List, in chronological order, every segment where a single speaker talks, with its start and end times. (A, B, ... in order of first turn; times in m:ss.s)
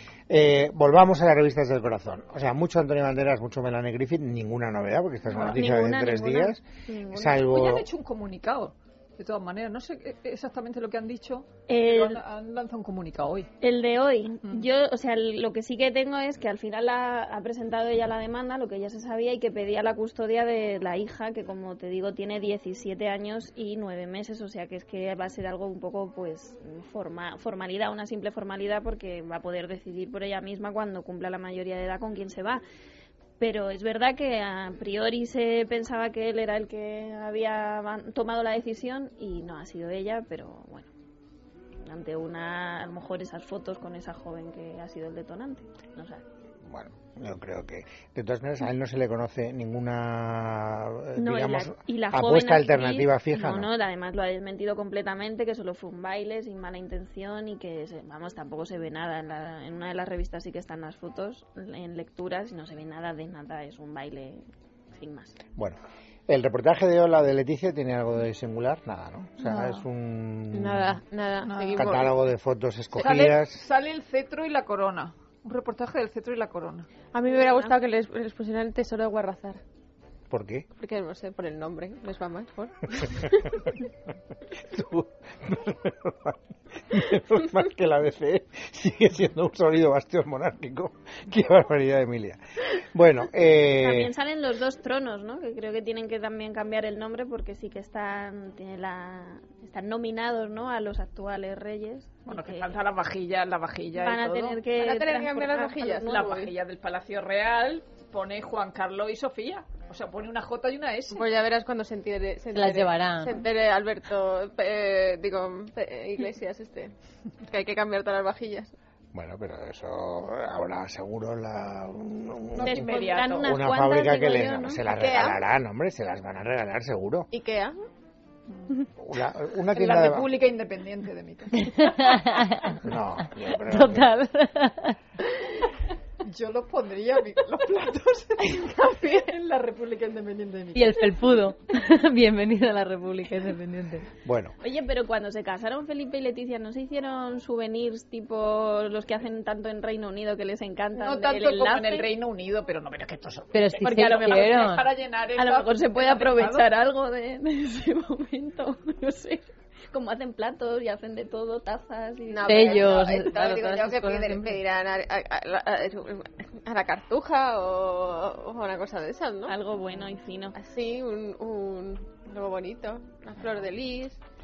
0:00.3-0:07.9 A
0:05.3-0:05.6 B
0:05.4-0:07.4 C
0:07.3-0:13.5 B
0:11.7-0:12.2 C
0:13.6-0:32.6 C
0:33.4-0:40.9 C
0:41.8-0:46.2 C
0:46.6-0:53.7 A
0:51.2-1:05.4 C
1:05.6-1:11.0 A
1:09.4-1:09.8 B
1:10.5-1:12.2 D
1:11.4-1:12.0 B
1:11.7-1:13.6 A
1:12.9-1:16.9 B
1:17.1-1:19.6 D
1:20.3-1:20.7 A
1:20.8-1:23.6 D
1:24.5-1:34.1 A
1:33.6-1:42.8 C
1:42.3-1:44.6 B
1:44.0-1:46.1 C
1:44.8-1:46.5 D
1:45.8-1:51.2 B
1:51.1-1:56.9 D
1:52.5-1:53.4 E
1:57.4-1:58.7 D
1:59.1-2:07.3 A
2:02.6-2:03.4 B
2:02.6-2:04.8 C
2:04.9-2:05.4 D
2:07.3-2:07.8 D
2:08.5-2:08.7 B
2:09.0-2:10.4 A
2:09.7-2:12.1 B
2:11.6-2:12.8 E
2:12.8-2:14.1 A
2:13.6-2:15.0 E
2:16.2-2:21.2 B
2:20.7-2:24.1 E
2:24.2-2:24.5 A
2:24.6-2:32.1 C
2:31.0-2:36.7 B
2:33.5-2:34.9 E
2:35.4-2:42.9 C
2:42.3-2:49.5 D
2:42.5-2:44.6 E
2:42.7-2:44.3 B
2:49.5-2:50.5 C
2:50.5-2:54.2 D